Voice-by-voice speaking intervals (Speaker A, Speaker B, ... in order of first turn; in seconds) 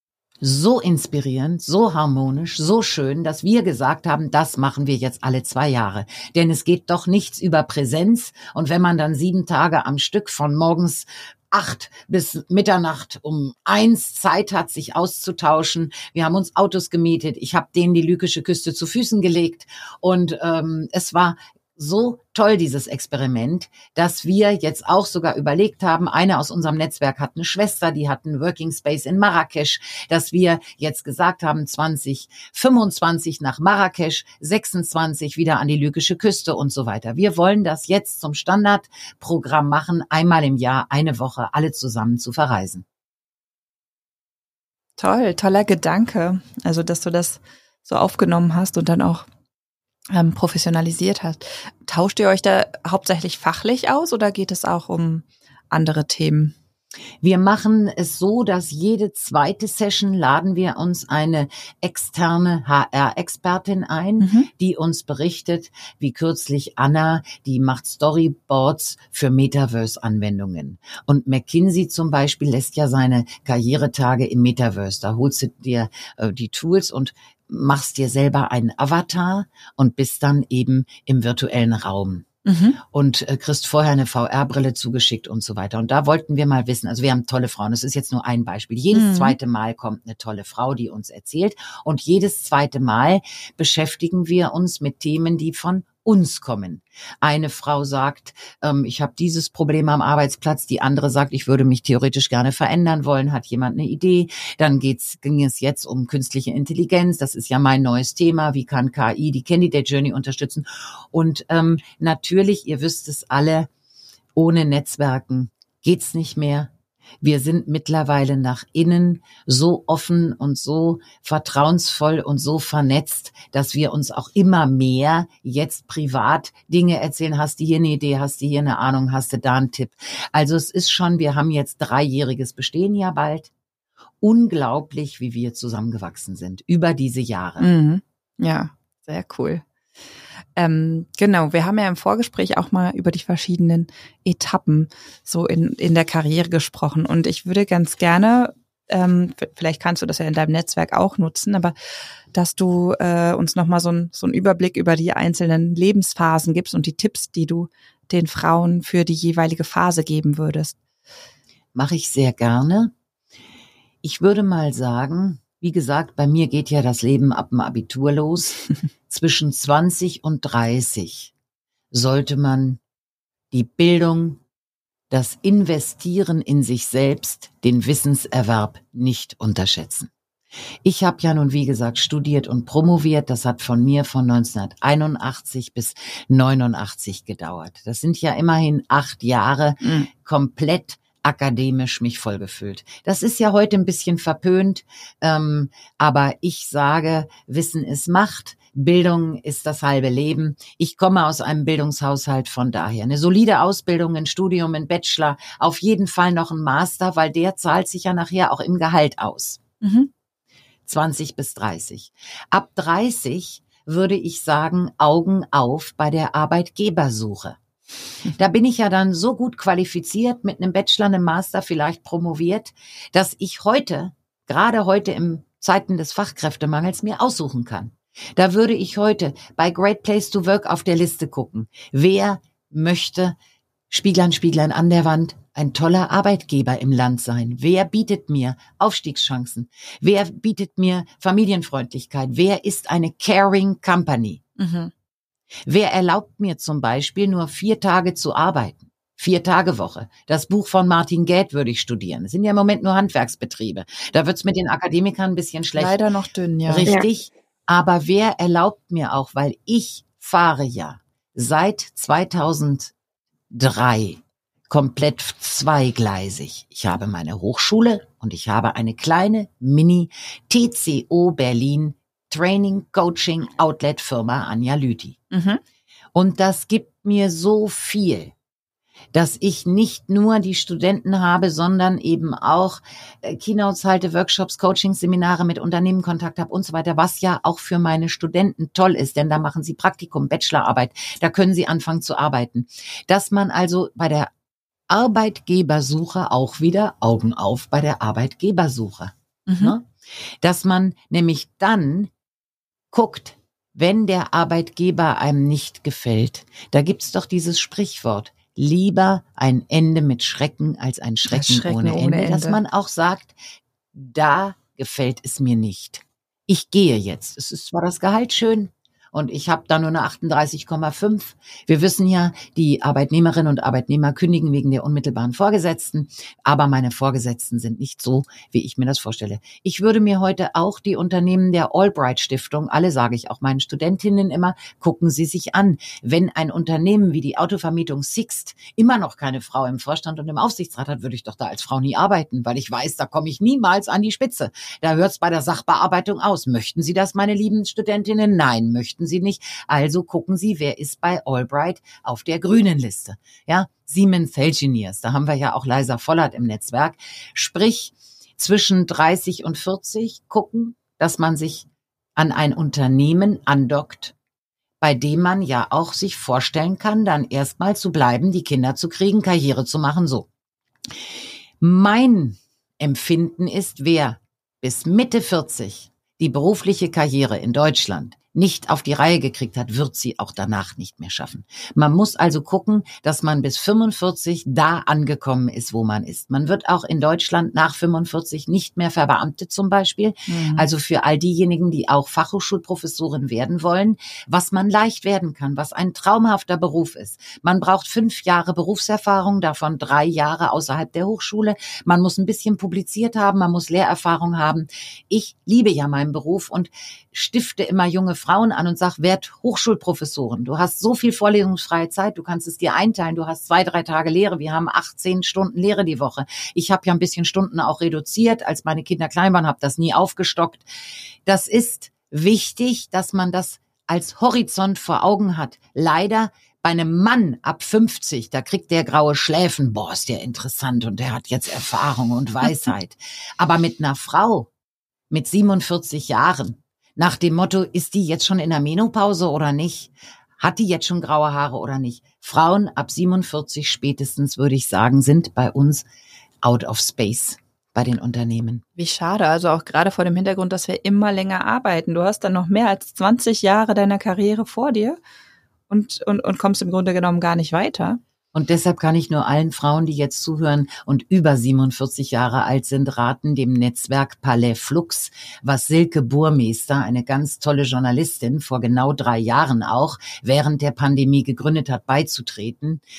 Speaker A: 0.4-42.8, 57.2-82.3, 82.8-113.7, 114.3-133.5, 134.2-137.7, 161.7-162.9, 164.0-171.3, 171.9-172.8, 173.5-174.4, 175.1-180.1, 180.8-209.6, 210.8-217.6, 218.3-233.3, 233.9-244.4, 245.7-256.0, 256.7-262.9, 263.5-275.2, 276.1-278.3, 279.1-294.3, 294.9-299.9, 300.4-302.1, 302.9-313.4, 313.9-364.1, 364.8-370.3, 371.6-420.6, 421.2-434.5, 435.1-445.8, 446.4-448.6, 458.3-472.8
Speaker B: 45.0-49.2, 50.1-56.5, 64.2-64.5, 82.5-82.8, 88.9-89.3, 137.6-139.6, 140.6-151.7, 152.3-160.8, 189.8-190.1, 209.8-210.1, 244.6-244.9, 255.8-256.9, 275.3-275.6, 299.5-299.7, 311.3-312.6, 390.3-390.7, 448.8-455.0, 455.7-458.0